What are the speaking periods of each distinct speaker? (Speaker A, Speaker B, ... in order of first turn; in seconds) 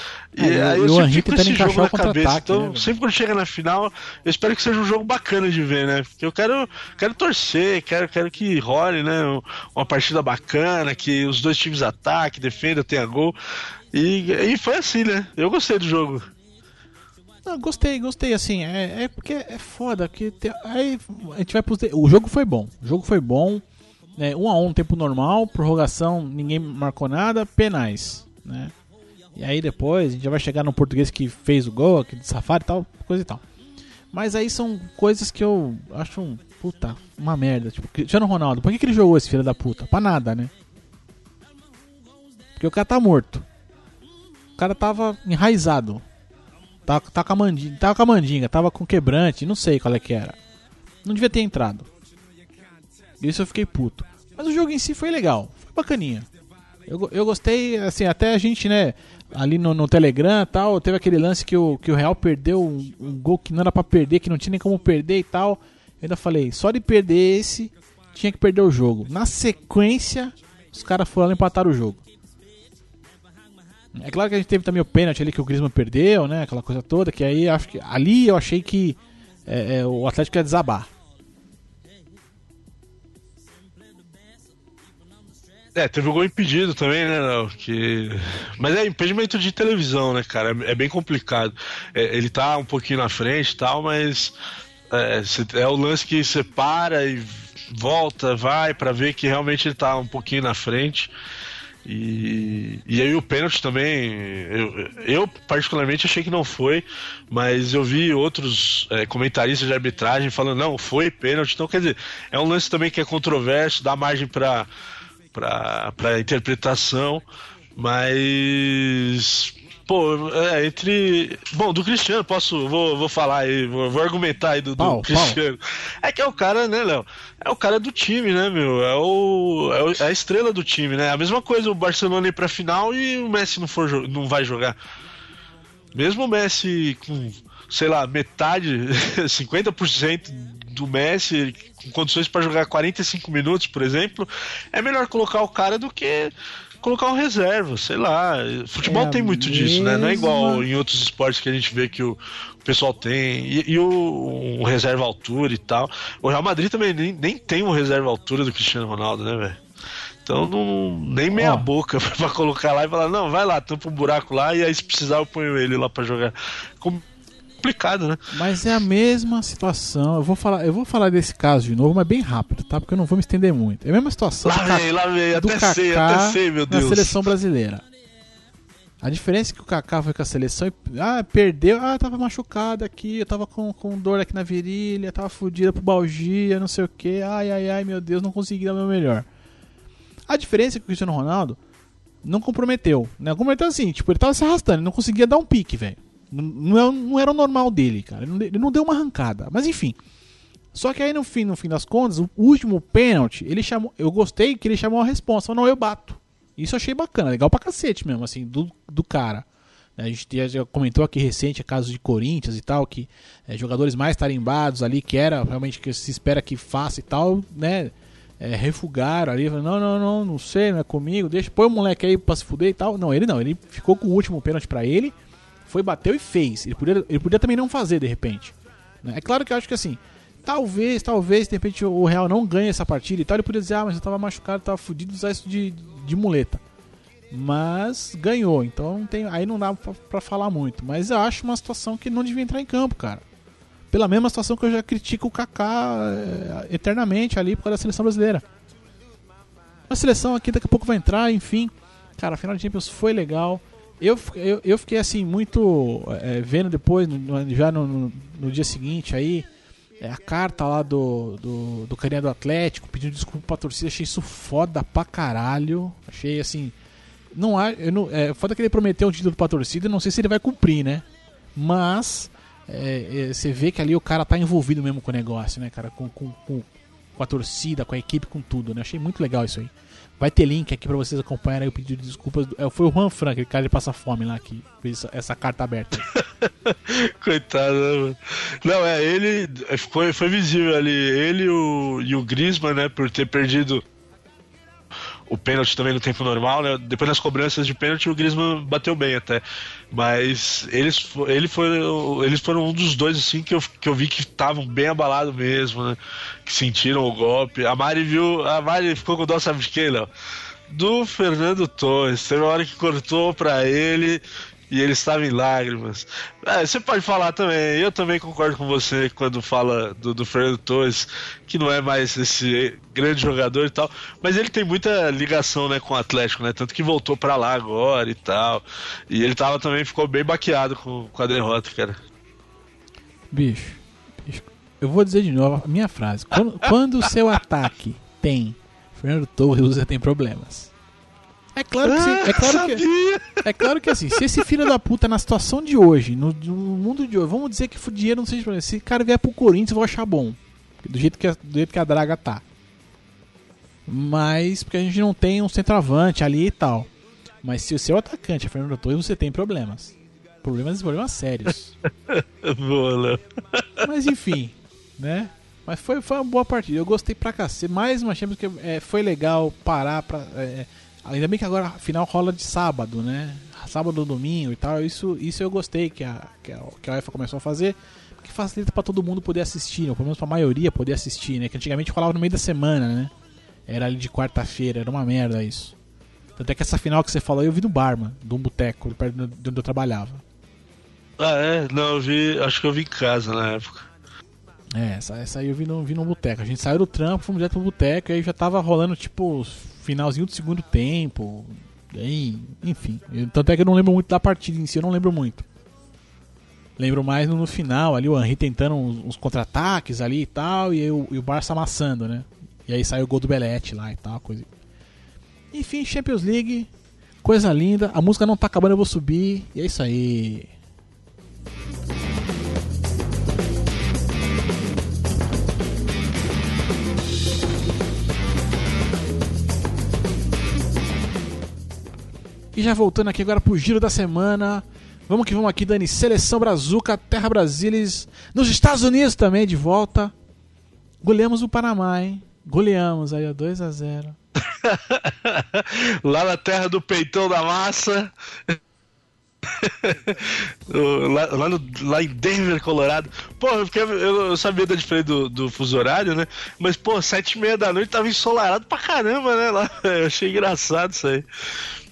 Speaker A: 0.3-13.3, 13.9-16.3, 85.8-94.3, 94.9-101.1, 101.8-114.7, 115.3-117.2, 117.8-134.8, 135.9-159.6, 160.2-167.0, 167.6-168.3, 174.4-177.2, 286.1-293.8, 295.3-310.1, 310.7-332.0, 341.8-343.4, 362.1-363.9, 391.2-393.9, 444.4-448.6, 449.5-461.2
Speaker B: 0.4-2.9, 17.4-23.6, 24.2-28.7, 29.4-33.4, 34.1-40.5, 42.6-43.5, 44.6-46.0, 46.9-50.4, 51.0-51.9, 53.2-56.3, 56.9-72.0, 73.9-80.9, 124.8-125.4, 148.8-150.7, 161.3-161.7, 168.3-177.8, 179.0-189.3, 190.3-191.6, 192.2-200.0, 200.7-209.5, 210.0-236.6, 237.3-243.2, 243.9-248.4, 249.9-259.5, 260.0-266.8, 267.3-286.1, 333.3-340.7, 341.6-342.9, 343.4-352.4, 353.9-356.9, 357.4-361.8, 363.8-383.1, 383.7-385.8, 386.4-390.2, 394.7-405.5, 406.8-414.5, 415.5-416.7, 417.2-420.5, 432.5-440.1, 441.0-444.2